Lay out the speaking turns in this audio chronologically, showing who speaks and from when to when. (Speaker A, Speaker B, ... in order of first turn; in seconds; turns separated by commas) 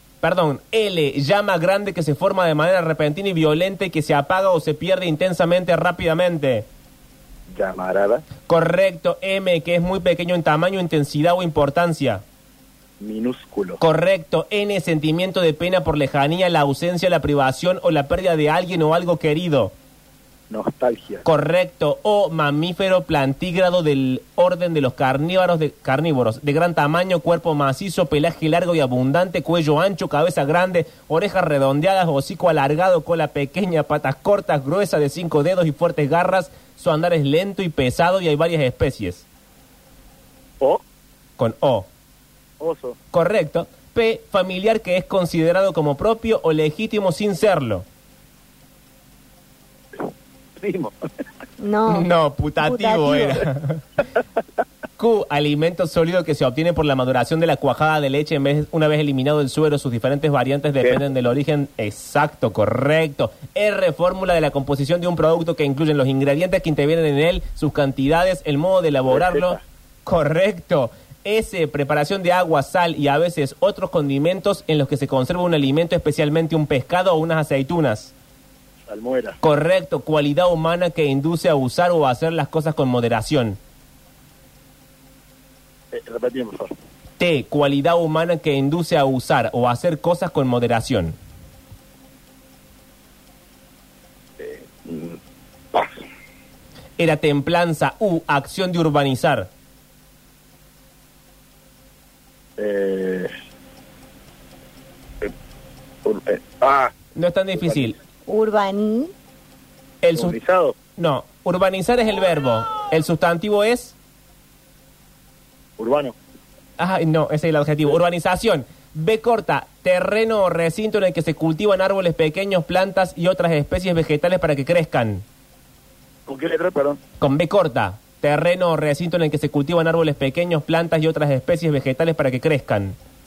Speaker A: 0.2-6.7, Speaker B: 7.5-8.2, Speaker A: 8.5-12.2, Speaker B: 13.0-13.8, Speaker A: 13.8-19.7, Speaker B: 20.5-21.2, Speaker A: 21.2-39.3, Speaker A: 41.4-41.9, Speaker B: 42.6-43.0, Speaker A: 43.1-47.9, Speaker B: 50.6-51.0, Speaker C: 51.6-52.1, Speaker A: 51.9-53.8, Speaker C: 52.6-53.5, Speaker A: 55.0-78.1, Speaker B: 69.1-69.6, Speaker B: 78.9-79.4, Speaker A: 79.4-83.6, Speaker B: 85.9-86.7, Speaker A: 87.2-91.2, Speaker B: 94.4-95.2, Speaker B: 95.7-96.0, Speaker A: 97.0-99.5, Speaker B: 102.6-103.3, Speaker B: 106.0-107.0, Speaker A: 107.2-108.0, Speaker B: 107.6-108.0, Speaker C: 108.3-109.1, Speaker A: 110.0-110.4, Speaker B: 110.2-110.8, Speaker A: 111.0-114.0, Speaker B: 115.8-116.2, Speaker A: 116.8-125.2, Speaker B: 126.3-127.0, Speaker A: 127.2-133.0